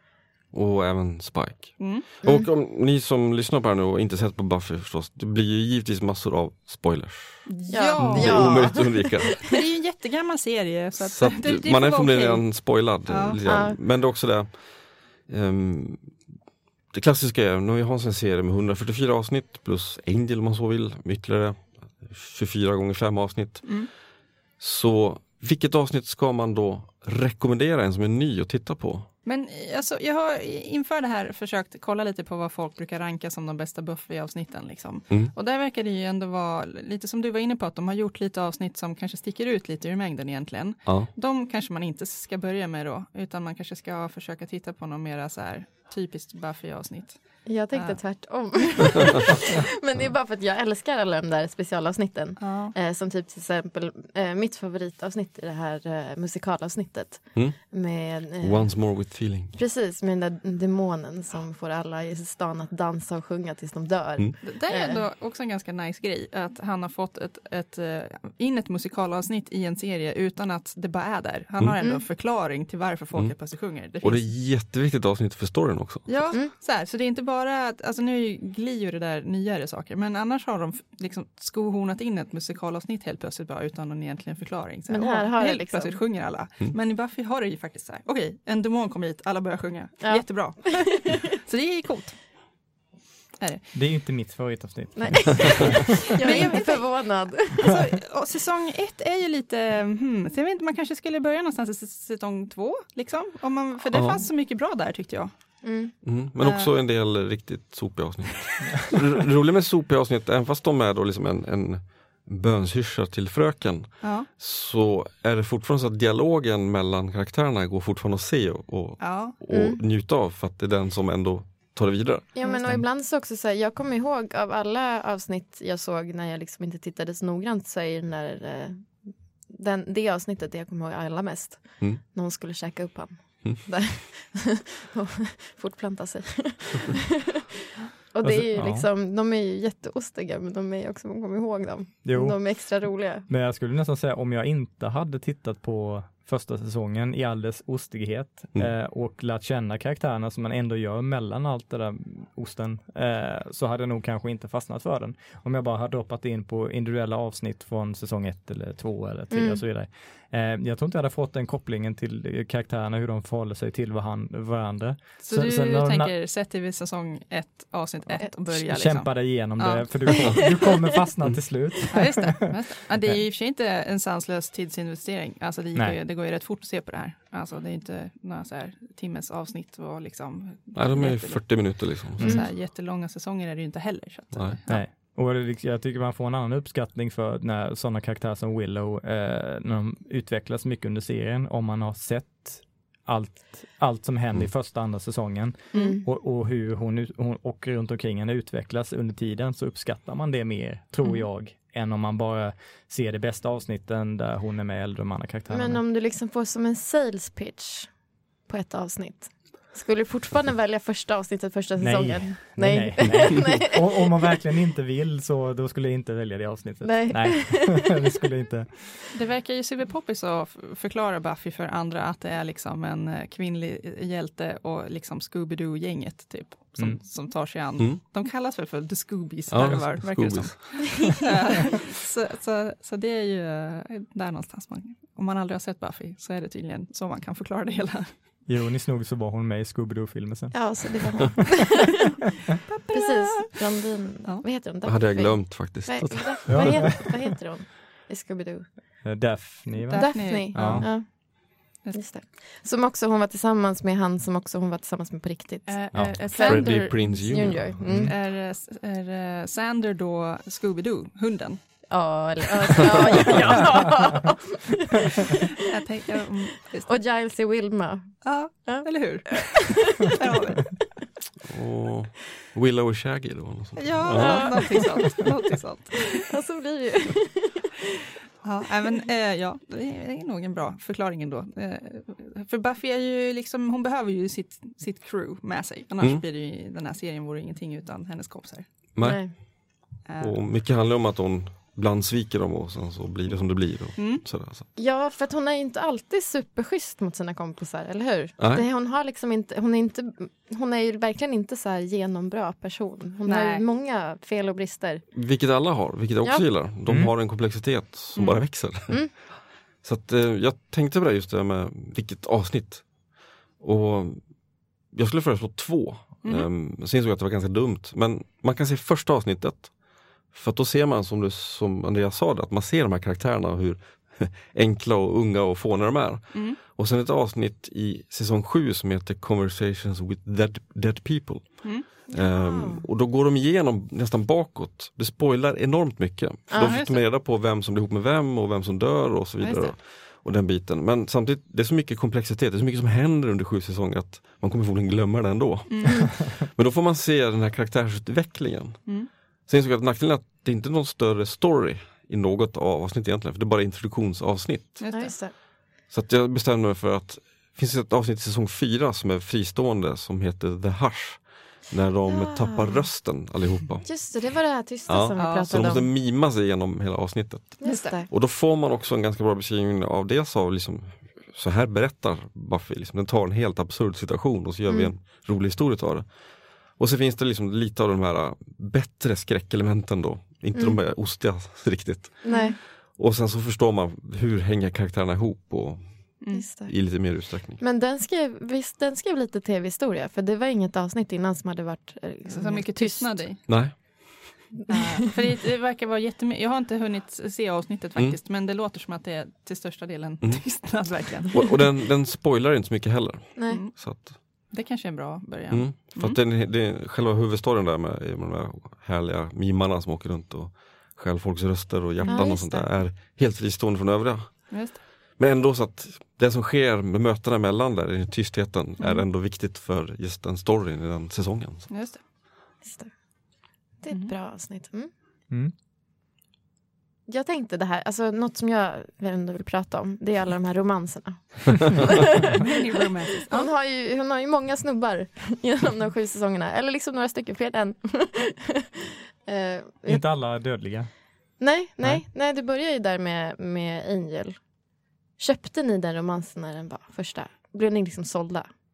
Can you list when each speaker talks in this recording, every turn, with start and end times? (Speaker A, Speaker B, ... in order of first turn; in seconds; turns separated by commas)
Speaker A: 0.5-9.4, Speaker B: 1.8-2.1, Speaker C: 2.2-2.5, Speaker B: 7.5-13.4, Speaker C: 7.7-9.3, Speaker A: 11.0-16.3, Speaker C: 13.5-13.8, Speaker A: 16.9-24.0, Speaker B: 23.6-23.9, Speaker A: 24.6-29.1, Speaker B: 29.2-49.2, Speaker C: 47.5-65.0, Speaker B: 52.4-52.8, Speaker A: 57.4-59.5, Speaker B: 64.4-74.3, Speaker A: 73.1-76.3, Speaker B: 76.1-92.2, Speaker C: 84.9-86.0, Speaker C: 90.0-91.2, Speaker B: 93.4-93.7, Speaker D: 93.7-95.7, Speaker C: 95.0-97.7, Speaker B: 96.2-105.3, Speaker A: 103.9-104.3, Speaker C: 105.6-105.9, Speaker A: 106.0-122.3, Speaker B: 106.4-106.7, Speaker B: 114.0-114.3, Speaker B: 119.0-119.4, Speaker C: 119.5-119.8, Speaker C: 122.3-137.0, Speaker B: 122.4-122.7, Speaker C: 138.1-143.3, Speaker D: 138.2-138.9, Speaker D: 142.0-166.1, Speaker C: 159.3-159.6, Speaker B: 165.2-170.0, Speaker D: 168.5-172.3, Speaker B: 171.9-184.8, Speaker A: 180.8-182.3, Speaker D: 182.2-182.5, Speaker C: 182.2-182.5, Speaker A: 184.3-184.6, Speaker D: 184.7-205.8, Speaker C: 195.7-196.1, Speaker C: 205.5-213.9, Speaker D: 211.8-219.1, Speaker C: 216.8-218.0, Speaker B: 219.1-238.2, Speaker A: 229.5-230.9, Speaker D: 238.5-241.3, Speaker C: 240.5-241.7, Speaker B: 242.7-243.7, Speaker C: 242.9-249.0, Speaker A: 244.8-246.9, Speaker D: 246.5-247.1, Speaker D: 249.0-250.9, Speaker C: 249.9-258.1, Speaker B: 249.9-251.2, Speaker B: 255.7-262.0, Speaker A: 256.1-258.1, Speaker D: 257.8-258.2, Speaker C: 261.9-265.1, Speaker B: 262.8-263.5, Speaker B: 265.7-267.0, Speaker C: 266.9-270.1, Speaker B: 268.2-270.9, Speaker A: 271.5-275.0, Speaker B: 273.8-276.3, Speaker C: 274.1-274.9, Speaker C: 276.3-277.8, Speaker B: 278.4-288.7, Speaker A: 288.9-294.6, Speaker C: 289.0-289.4, Speaker B: 290.1-290.4, Speaker B: 294.0-294.2, Speaker C: 294.8-305.1, Speaker A: 298.4-298.7, Speaker B: 303.2-303.6, Speaker A: 305.1-354.8, Speaker D: 306.9-307.1, Speaker B: 308.1-308.4, Speaker B: 326.3-326.6, Speaker C: 332.1-332.9, Speaker C: 336.5-336.8, Speaker B: 336.6-337.1, Speaker C: 339.4-339.7, Speaker B: 345.7-346.0, Speaker B: 354.8-355.2, Speaker C: 354.9-355.3, Speaker A: 355.9-364.2, Speaker C: 362.1-362.9, Speaker C: 363.8-365.9, Speaker A: 364.9-387.6, Speaker B: 365.2-365.9, Speaker C: 367.6-368.1, Speaker B: 367.6-368.0, Speaker C: 374.7-374.9, Speaker C: 382.2-382.6, Speaker B: 382.3-382.6, Speaker B: 386.2-386.5, Speaker C: 386.3-393.6, Speaker B: 392.3-393.4, Speaker A: 393.5-394.4, Speaker B: 394.7-401.6, Speaker A: 400.2-400.8, Speaker A: 401.3-404.1, Speaker C: 403.4-403.6, Speaker B: 403.5-406.2, Speaker A: 405.5-421.9, Speaker B: 412.0-412.3, Speaker C: 412.1-412.7, Speaker B: 414.5-414.8, Speaker B: 421.7-422.0, Speaker C: 422.6-424.9, Speaker C: 427.1-432.4, Speaker B: 432.4-433.5, Speaker C: 433.2-440.1, Speaker D: 439.9-440.9, Speaker C: 441.4-444.5, Speaker C: 445.2-448.5